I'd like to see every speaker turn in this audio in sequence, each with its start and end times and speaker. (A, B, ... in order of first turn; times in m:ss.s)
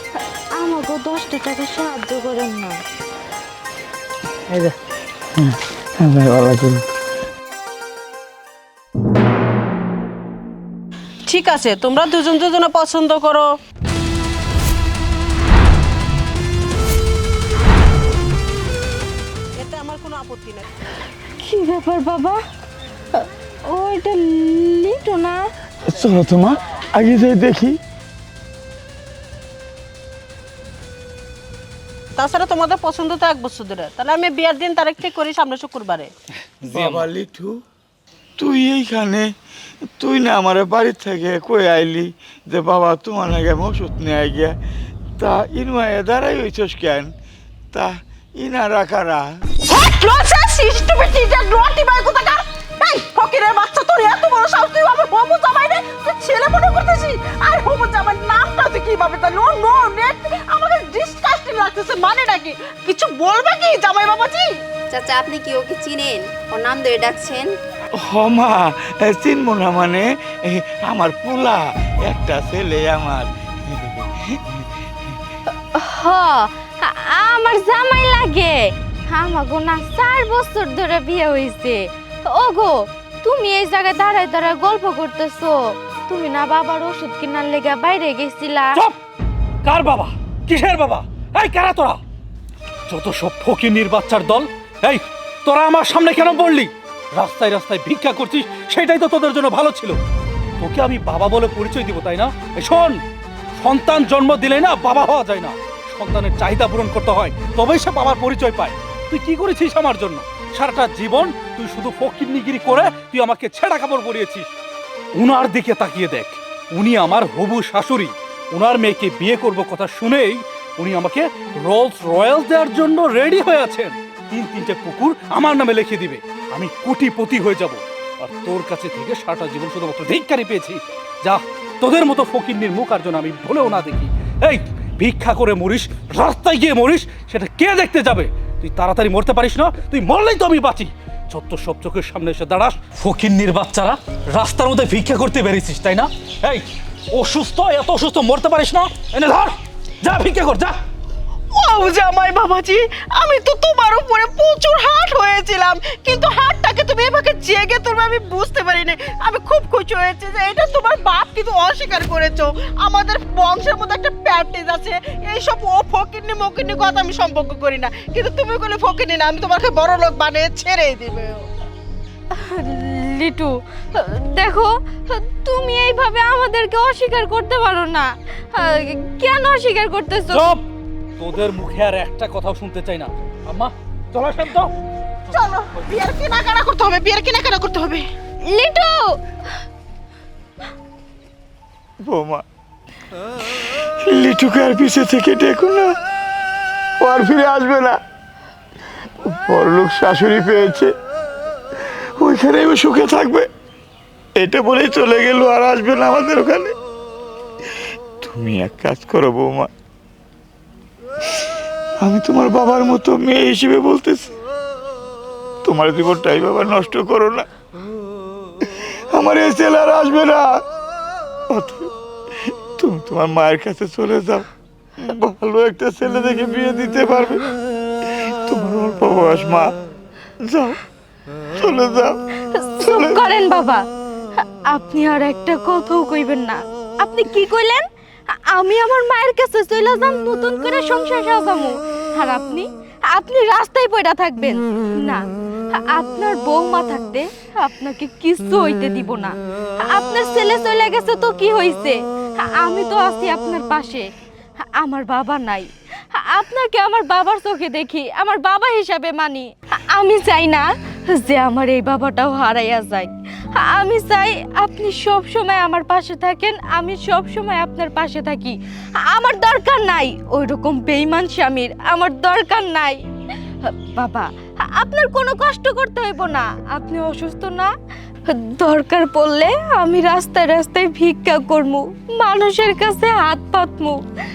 0:00.5-0:02.8 A
0:05.4-0:06.9 B
0:11.2-0:13.6 C
0:19.5-0:20.7 C
0:21.4-0:22.4 A
0:23.1-0:25.4 A
0:25.8-0:27.8 B
0:32.1-0:36.1 C
0:36.5-0:37.1 D
0:36.6-0:37.6 B
0:38.4-0:39.3 B
0:40.0-0:44.6 B
0:45.2-0:47.1 B
0:47.7-0:49.3 B
0:49.6-1:04.6 C
1:04.9-1:07.6 E
1:08.0-1:14.7 B
1:15.7-1:28.8 A
1:29.6-1:32.0 D
1:32.9-1:40.0 D
1:40.6-1:43.0 D
1:43.6-1:54.5 D
1:55.2-2:30.7 D
2:31.5-2:51.5 C
2:52.3-3:00.5 A
3:00.3-3:00.6 D
3:01.2-3:04.7 D
3:05.3-3:08.0 C
3:08.4-3:09.2 A
3:12.0-3:12.4 B
3:13.6-3:15.9 B
3:17.0-3:18.0 B
3:19.2-3:20.9 B
3:22.2-3:23.5 B
3:24.4-3:26.7 B
3:28.2-3:29.7 B
3:32.0-3:34.4 B
3:35.6-3:37.5 B
3:39.1-3:40.5 B
3:41.5-3:41.9 B
3:42.8-3:44.5 B
3:45.0-3:47.5 B
3:48.3-3:49.7 B
3:50.4-3:50.8 B
3:51.6-3:52.2 B
3:52.5-3:53.8 A
3:52.8-3:53.2 B
3:54.7-4:05.2 A
4:05.7-4:14.0 A
4:14.8-4:33.0 A
4:33.6-4:37.7 A
4:38.3-4:44.0 A